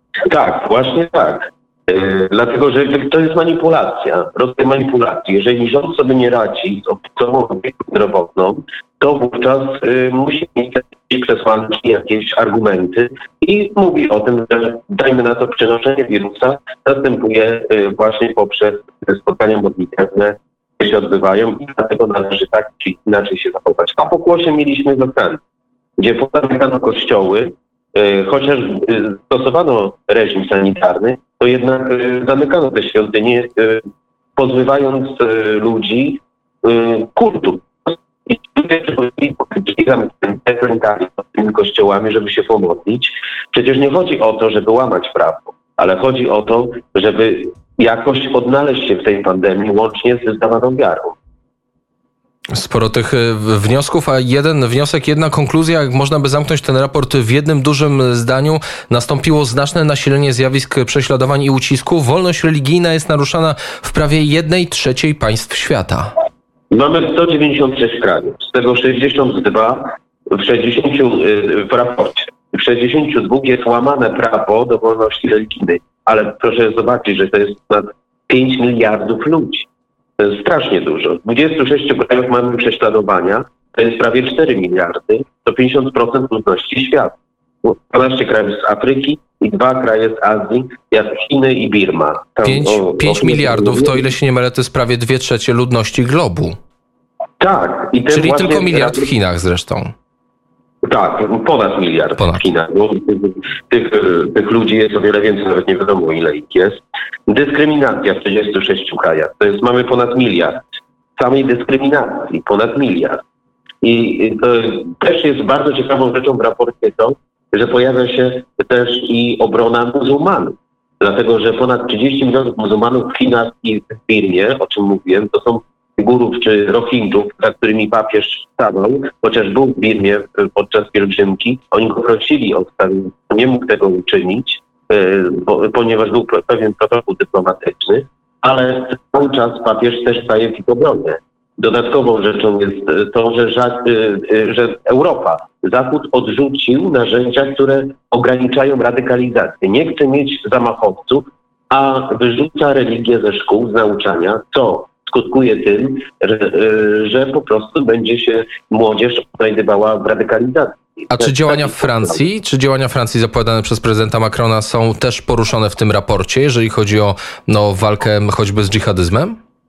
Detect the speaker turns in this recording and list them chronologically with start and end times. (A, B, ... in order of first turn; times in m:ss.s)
0:00.3-0:25.4 A
0:26.0-0:33.8 A
0:34.4-0:51.2 A
0:52.5-1:06.1 B
1:06.7-1:34.1 A
1:32.4-1:36.6 B
1:37.4-1:39.1 A
1:38.1-1:39.9 B
1:40.8-1:50.6 A
1:42.2-1:42.4 B
1:51.2-1:53.2 A
1:53.8-2:42.2 A
2:41.1-2:49.4 B